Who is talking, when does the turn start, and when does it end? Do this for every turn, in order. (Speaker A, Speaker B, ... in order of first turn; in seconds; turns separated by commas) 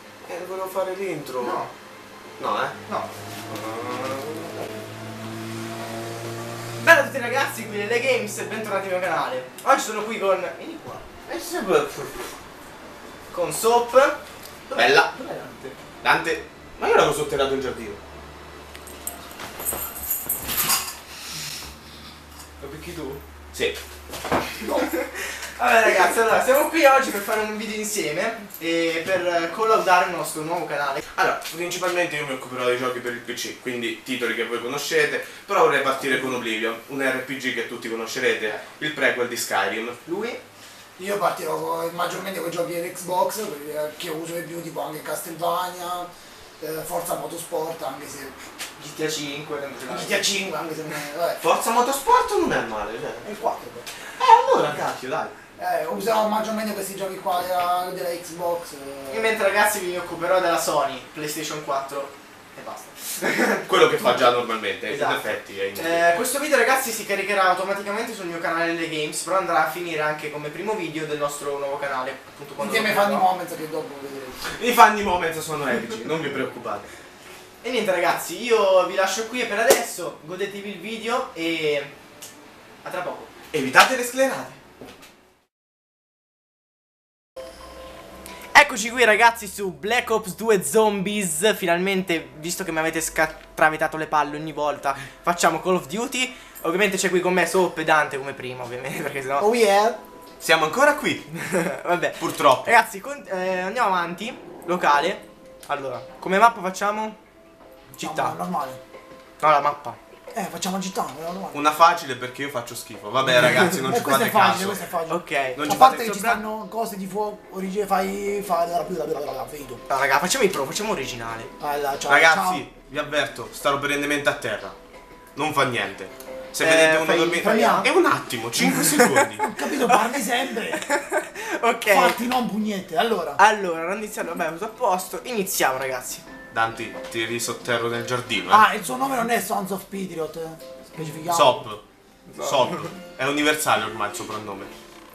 Speaker A: 0.3-1.6, Speaker B: 1.4-1.7, Speaker A: 2.4-2.8, Speaker A: 3.5-4.7, Speaker B: 6.8-11.1, Speaker A: 11.3-12.3, Speaker B: 13.3-15.8, Speaker A: 14.8-15.1, Speaker A: 16.0-18.0, Speaker B: 22.6-23.2, Speaker A: 23.5-23.8, Speaker B: 24.6-31.1, Speaker A: 31.2-40.0, Speaker B: 40.0-40.4, Speaker C: 41.0-46.1, Speaker C: 46.6-48.4, Speaker B: 48.8-50.2, Speaker C: 49.9-51.4, Speaker A: 51.4-53.3, Speaker C: 53.2-53.9, Speaker A: 54.2-55.4, Speaker C: 55.6-59.3, Speaker B: 59.1-64.3, Speaker A: 63.7-66.1, Speaker B: 64.9-73.3, Speaker C: 72.6-74.5, Speaker A: 74.5-76.9, Speaker B: 77.6-81.9, Speaker B: 82.8-83.3, Speaker A: 83.5-84.6, Speaker B: 88.5-99.5, Speaker C: 99.4-100.0, Speaker A: 100.4-101.3, Speaker B: 101.3-107.2, Speaker A: 102.2-102.8, Speaker C: 107.9-108.8, Speaker B: 108.0-108.4, Speaker B: 109.4-110.0, Speaker C: 110.3-111.6, Speaker A: 111.5-114.8, Speaker C: 113.9-119.8, Speaker B: 115.1-115.7, Speaker A: 115.5-116.4, Speaker B: 119.9-121.5, Speaker C: 121.6-122.7, Speaker A: 122.1-124.8, Speaker A: 125.4-129.5, Speaker B: 126.6-127.9, Speaker C: 127.4-127.9, Speaker B: 128.8-132.2, Speaker C: 129.4-130.9, Speaker C: 131.9-133.4, Speaker B: 133.4-136.2, Speaker A: 136.5-138.7, Speaker C: 138.5-141.7, Speaker A: 141.3-141.8, Speaker B: 142.3-142.9, Speaker A: 142.4-144.7